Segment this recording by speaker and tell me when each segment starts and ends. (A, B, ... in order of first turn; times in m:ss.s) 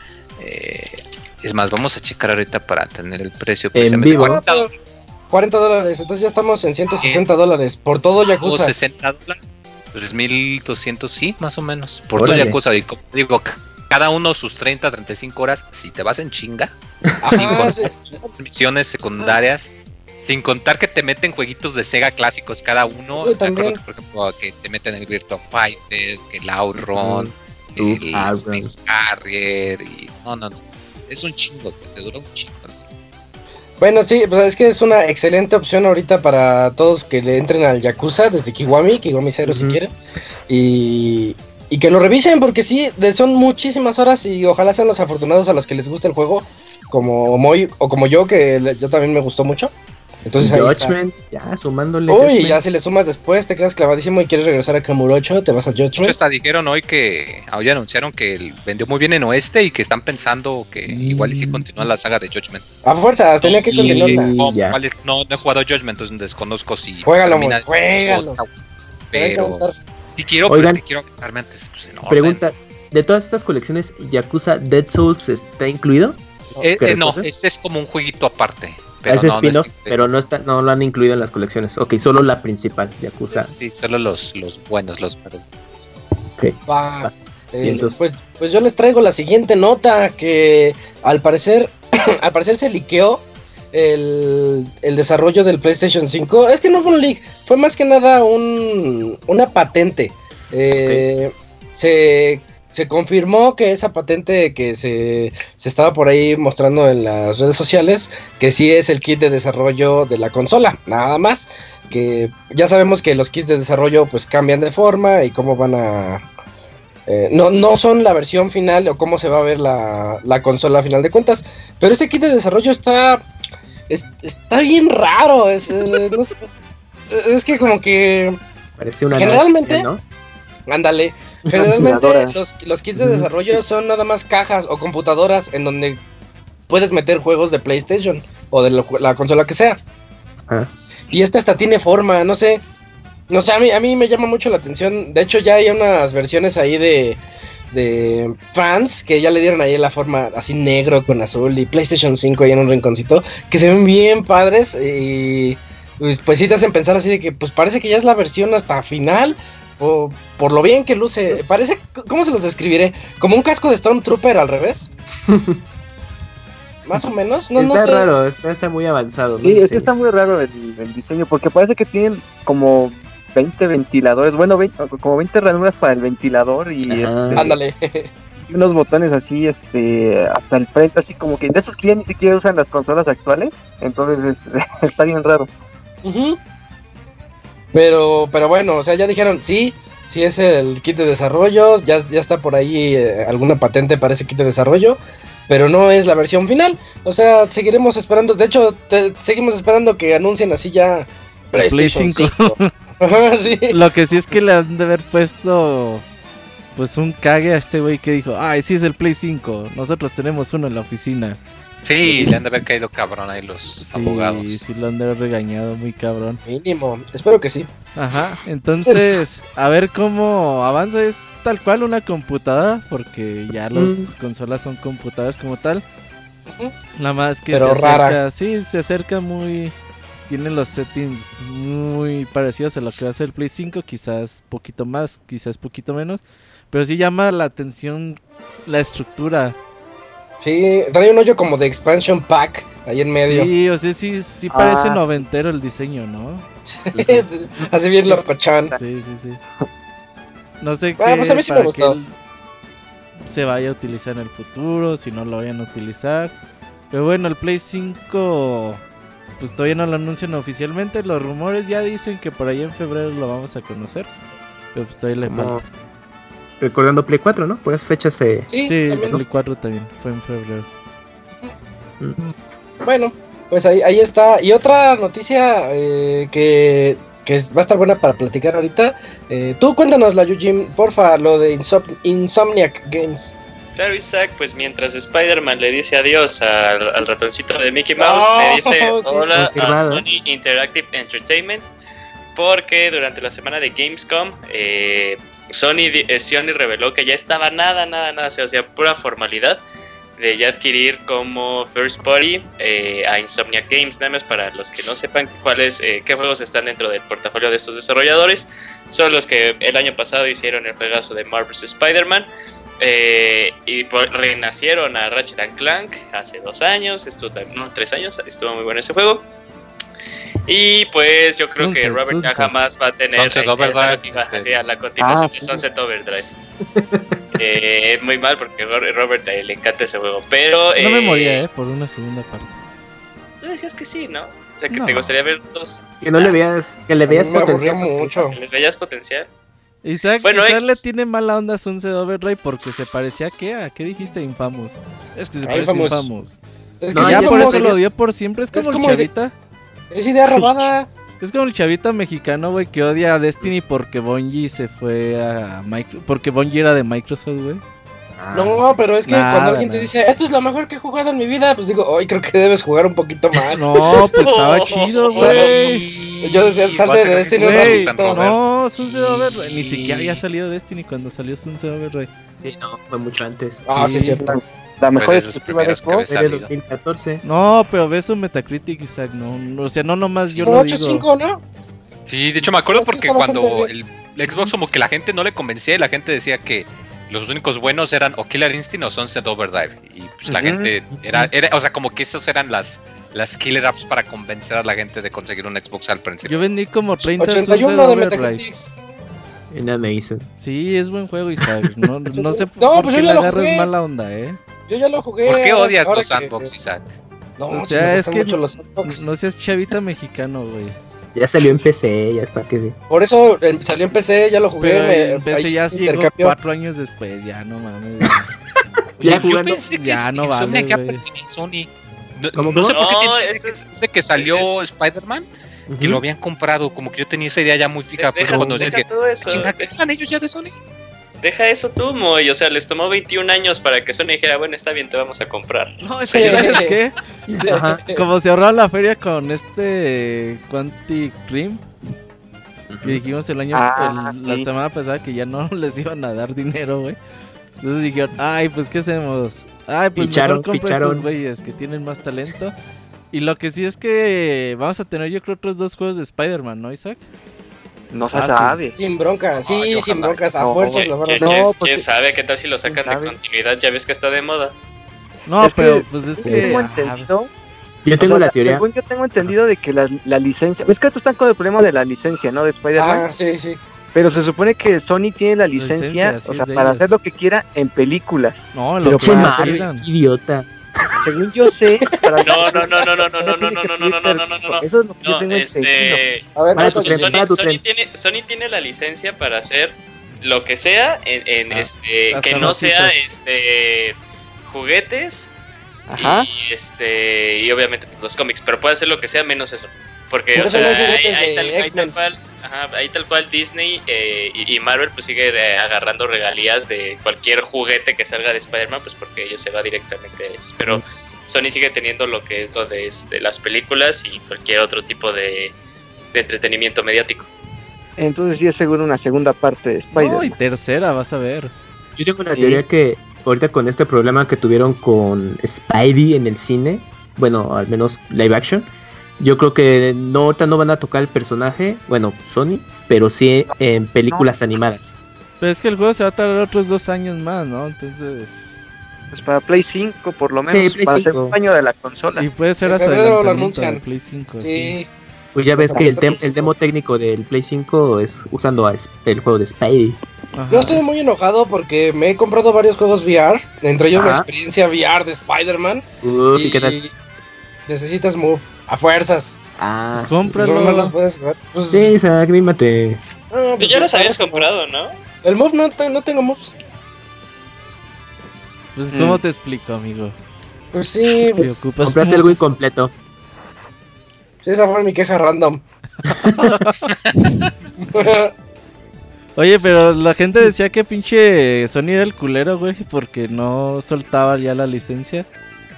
0:00.4-0:04.7 A
0:03.7-0:04.4 B
0:04.1-0:04.7 C
0:05.3-0:08.8 C
0:08.4-0:09.4 A
0:09.9-0:16.7 A
0:12.2-0:12.6 B
0:17.1-0:17.8 B
0:17.2-0:18.2 C
0:17.3-0:19.7 A
0:20.2-0:32.7 A
0:23.2-0:23.8 C
0:26.8-0:28.7 B
0:33.8-0:39.9 C
0:39.4-0:39.8 B
0:40.5-0:49.7 C
0:50.3-0:51.0 C
0:50.4-0:52.6 B
0:52.1-0:56.2 C
0:56.0-1:02.6 A
1:00.9-1:01.8 B
1:02.8-1:04.3 C
1:03.4-1:08.5 A
1:03.7-1:04.8 B
1:07.0-1:08.4 C
1:09.1-1:09.6 A
1:09.2-1:09.8 C
1:10.2-1:12.4 A
1:10.5-1:10.8 B
1:12.1-1:16.2 B
1:16.6-1:20.0 A
1:16.7-1:17.3 B
1:19.1-1:23.5 B
1:23.3-1:25.4 A
1:26.4-1:28.0 B
1:26.7-1:56.3 C
1:40.8-1:41.1 B
1:57.1-2:03.2 C
2:03.9-2:06.4 C
2:07.1-2:08.4 C
2:08.8-2:10.0 B
2:09.1-2:09.9 C
2:10.7-2:16.0 C
2:11.5-2:12.0 B
2:11.8-2:12.3 D
2:13.0-2:13.3 B
2:16.7-2:19.8 C
2:21.1-2:22.6 C
2:23.3-2:44.9 C
2:45.3-2:45.6 B
2:46.8-2:48.2 C
2:47.6-2:49.9 B
2:49.4-2:57.6 D
2:56.9-2:57.6 B
2:57.3-2:58.1 C
2:58.5-3:05.5 D
3:06.0-3:06.4 C
3:07.7-3:23.8 C
3:21.5-3:22.7 E
3:23.7-3:26.0 E
3:26.8-3:31.4 E
3:31.8-3:34.6 A
3:33.8-3:36.4 E
3:36.4-3:37.7 C
3:38.0-3:45.8 E
3:43.7-3:44.1 B
3:47.0-3:49.7 E
3:47.5-3:48.2 C
3:50.3-3:59.6 E
4:00.4-4:03.5 C
4:03.2-4:07.3 E
4:04.5-4:05.0 D
4:06.7-4:08.8 C
4:08.7-4:09.4 E
4:10.6-4:12.1 E
4:11.0-4:12.0 C
4:13.2-4:16.3 E
4:16.9-4:18.8 E
4:19.4-4:24.1 E
4:24.7-4:25.6 E
4:25.2-4:25.6 B
4:26.6-4:28.5 B
4:28.5-4:29.2 C
4:28.6-4:30.7 E
4:32.8-4:43.4 C
4:43.8-4:51.7 F
4:48.0-4:49.3 C
4:49.4-4:50.0 B
4:52.4-4:59.6 F
5:00.2-5:12.3 F
5:12.8-5:19.3 F
5:20.5-5:26.3 F
5:21.5-5:22.5 E
5:23.1-5:24.5 A
5:25.0-5:25.6 D
5:26.7-5:27.2 B
5:27.4-5:31.4 F
5:30.8-5:32.6 E
5:33.4-5:36.4 F
5:34.7-5:35.1 B
5:36.0-5:38.2 B
5:37.1-5:38.4 C
5:38.3-5:39.3 F
5:39.8-5:46.4 E
5:40.2-5:40.8 F
5:45.4-5:46.1 C
5:46.8-5:47.9 C
5:46.9-5:47.8 B
5:46.9-5:49.3 E
5:48.5-5:49.1 C
5:49.9-5:50.9 C
5:51.2-5:57.6 E
5:58.2-5:58.6 B
5:58.3-6:03.8 C
5:59.1-5:59.9 E
6:03.5-6:05.8 E
6:04.2-6:05.7 F
6:05.1-6:08.3 C
6:05.5-6:06.6 B
6:06.6-6:09.4 A
6:07.4-6:12.1 E
6:09.4-6:10.2 B
6:12.4-6:13.7 B
6:13.7-6:14.3 C
6:13.8-6:14.1 E
6:13.8-6:16.1 D
6:15.0-6:16.5 A
6:16.1-6:17.2 B
6:17.2-6:21.1 E
6:20.4-6:20.7 A
6:20.4-6:21.4 C
6:22.1-6:36.4 A
6:22.7-6:23.7 C
6:30.3-6:30.7 D
6:36.2-6:38.7 E
6:37.0-6:38.5 C
6:39.5-6:40.3 B
6:40.4-6:44.4 E
6:42.1-6:43.7 C
6:44.7-6:46.5 C
6:45.2-6:46.8 A
6:47.4-6:49.1 C
6:47.5-6:50.8 E
6:51.2-6:52.8 B
6:52.9-6:56.4 C
6:54.6-6:58.3 E
6:59.0-6:59.6 B
6:59.0-7:05.3 A
6:59.7-7:01.0 E
7:02.4-7:02.8 B
7:02.7-7:04.5 F
7:05.7-7:06.0 B
7:05.8-7:10.5 A
7:08.0-7:09.7 F
7:11.2-7:16.7 F
7:15.8-7:17.0 E
7:16.1-7:16.8 C
7:17.3-7:17.8 B
7:17.4-7:18.0 C
7:17.9-7:21.6 E
7:22.7-7:23.0 B
7:22.8-7:27.0 E
7:23.5-7:24.5 D
7:27.6-7:32.5 E
7:30.0-7:31.1 B
7:33.1-7:37.0 E
7:37.9-7:38.8 D
7:38.1-7:38.6 E
7:38.8-7:41.4 C
7:39.5-7:41.9 D
7:40.6-7:44.5 F
7:42.6-7:43.2 D
7:45.3-7:47.1 E
7:45.4-7:47.3 D
7:46.2-7:46.6 B
7:47.8-7:48.6 B
7:48.0-7:53.0 D
7:52.8-7:53.6 C
7:53.9-7:59.7 D
7:55.5-7:56.9 E
7:58.5-7:59.9 E
7:58.8-8:01.1 B
8:00.9-8:06.0 D
8:02.2-8:15.3 F
8:06.4-8:07.0 C
8:06.6-8:07.6 B
8:11.6-8:13.0 E
8:15.9-8:16.3 D
8:16.0-8:35.6 F
8:20.3-8:21.9 C
8:36.1-8:37.3 F
8:38.0-8:40.4 D
8:39.9-8:41.5 E
8:42.0-8:55.0 B
8:42.4-8:42.6 D
8:55.4-8:58.5 E
8:59.1-9:02.3 D
9:00.5-9:01.4 B
9:02.2-9:04.8 E
9:02.6-9:03.8 C
9:04.4-9:04.9 C
9:05.3-9:10.0 B
9:05.6-9:06.5 C
9:05.8-9:06.2 D
9:10.3-9:10.8 E
9:10.5-9:16.9 C
9:13.9-9:14.3 B
9:16.0-9:16.8 B
9:17.7-9:19.4 C
9:19.6-9:20.4 B
9:19.9-9:20.9 E
9:20.4-9:21.9 C
9:21.7-9:23.0 B
9:23.3-9:24.5 C
9:23.6-9:25.0 F
9:25.2-9:26.5 C
9:28.8-9:30.2 E
9:28.9-9:29.2 D
9:30.7-9:31.6 C
9:31.4-9:32.6 E
9:31.8-9:32.9 B
9:34.4-9:35.6 C
9:36.1-9:36.8 E
9:36.8-9:37.4 A
9:37.8-9:38.3 C
9:39.4-9:45.3 E